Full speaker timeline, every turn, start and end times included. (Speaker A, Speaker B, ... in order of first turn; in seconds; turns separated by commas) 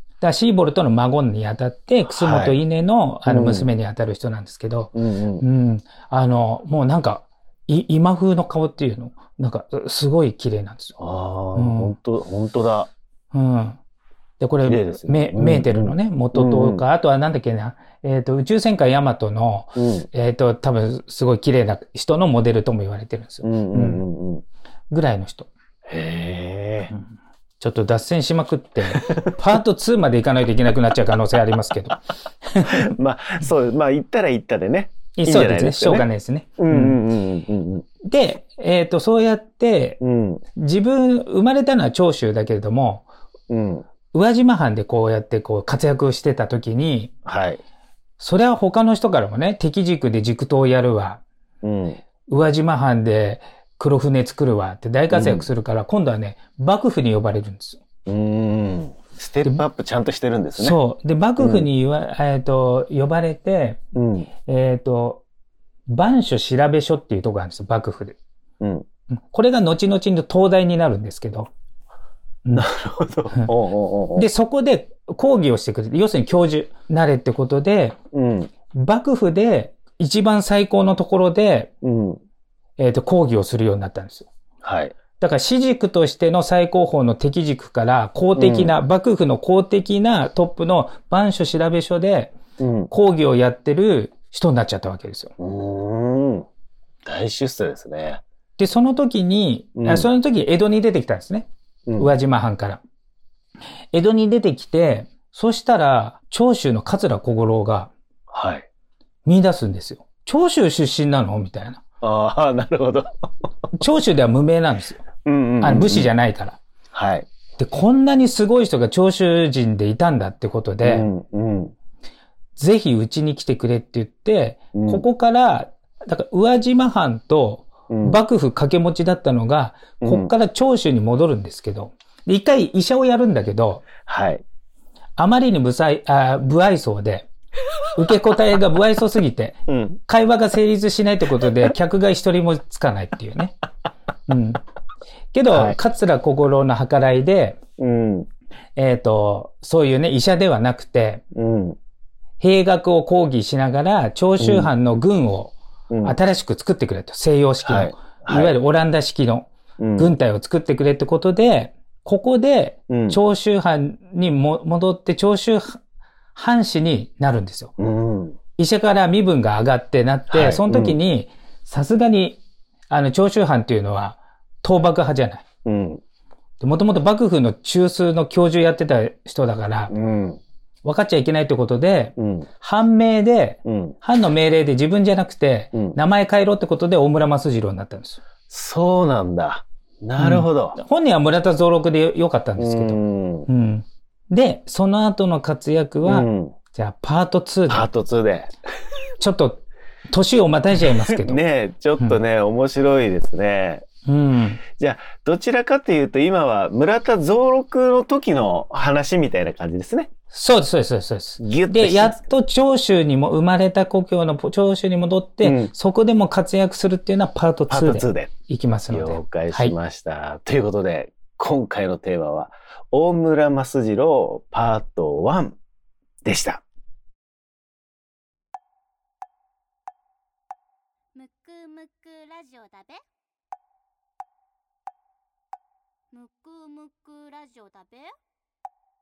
Speaker A: 0.2-11.0, Speaker B: 2.1-2.6, Speaker B: 3.3-3.7, Speaker B: 5.0-5.4, Speaker B: 11.0-12.9, Speaker A: 11.6-11.9, Speaker A: 13.3-13.8, Speaker A: 14.4-24.0, Speaker B: 14.6-16.8, Speaker B: 19.8-20.1, Speaker B: 23.4-24.4, Speaker A: 24.9-25.5, Speaker B: 25.9-26.9, Speaker A: 27.6-32.9, Speaker B: 28.9-29.2, Speaker B: 32.6-36.1, Speaker A: 35.2-37.0, Speaker B: 36.6-37.9, Speaker A: 38.0-40.0, Speaker B: 40.0-40.4, Speaker A: 40.6-43.1, Speaker B: 43.5-43.9, Speaker A: 44.1-47.1, Speaker B: 47.3-47.6, Speaker A: 48.2-51.2, Speaker B: 51.6-52.0, Speaker A: 52.3-57.8, Speaker B: 55.1-55.5, Speaker B: 58.1-60.8, Speaker A: 60.6-63.8, Speaker B: 61.4-61.7, Speaker B: 64.0-64.3, Speaker A: 64.5-65.2, Speaker A: 65.9-68.2, Speaker B: 68.6-68.9, Speaker A: 69.2-71.5, Speaker B: 72.5-74.3, Speaker A: 74.2-78.0, Speaker B: 78.1-78.5, Speaker A: 78.7-81.7, Speaker B: 81.8-82.2, Speaker A: 82.8-84.3, Speaker B: 84.6-85.0, Speaker A: 85.2-92.3, Speaker B: 88.4-88.7, Speaker B: 92.6-92.9, Speaker A: 92.9-95.3, Speaker B: 95.4-96.5, Speaker B: 97.0-98.2, Speaker A: 98.6-102.8, Speaker B: 99.8-100.1, Speaker A: 103.9-107.9, Speaker B: 108.3-108.7, Speaker A: 109.2-111.8, Speaker B: 112.0-113.1, Speaker A: 113.8-115.0, Speaker B: 115.2-116.1, Speaker A: 115.6-116.6, Speaker B: 116.9-117.3, Speaker A: 117.6-121.1, Speaker B: 120.8-121.7, Speaker A: 122.6-133.9, Speaker B: 124.7-125.0, Speaker B: 127.9-128.2, Speaker B: 130.0-130.3, Speaker B: 134.1-134.4, Speaker A: 135.2-137.3, Speaker A: 138.0-143.6, Speaker B: 139.7-140.0, Speaker A: 144.3-144.6, Speaker A: 145.3-147.6, Speaker B: 145.5-145.8, Speaker B: 147.8-148.3, Speaker A: 148.8-151.2, Speaker B: 151.3-151.8, Speaker A: 152.4-165.8, Speaker B: 154.4-154.7, Speaker B: 155.9-156.2, Speaker B: 157.7-158.6, Speaker B: 159.8-160.2, Speaker B: 162.9-163.2, Speaker A: 166.3-167.7, Speaker B: 167.8-168.4, Speaker A: 168.6-175.4, Speaker B: 170.3-171.0, Speaker B: 175.7-176.0, Speaker A: 176.6-179.9, Speaker B: 179.9-180.4, Speaker A: 180.8-188.2, Speaker B: 182.2-182.5, Speaker B: 183.7-184.0, Speaker B: 188.5-190.8, Speaker A: 190.2-197.9, Speaker B: 192.6-193.5, Speaker B: 196.1-196.6, Speaker B: 197.7-198.5, Speaker A: 199.2-201.4, Speaker B: 200.8-203.8, Speaker A: 204.1-204.6, Speaker B: 204.8-210.1, Speaker A: 210.3-219.7, Speaker B: 211.4-212.4, Speaker B: 215.4-215.7, Speaker B: 217.7-218.3, Speaker B: 218.9-225.6, Speaker B: 226.2-226.6, Speaker C: 231.2-233.0, Speaker C: 236.1-238.2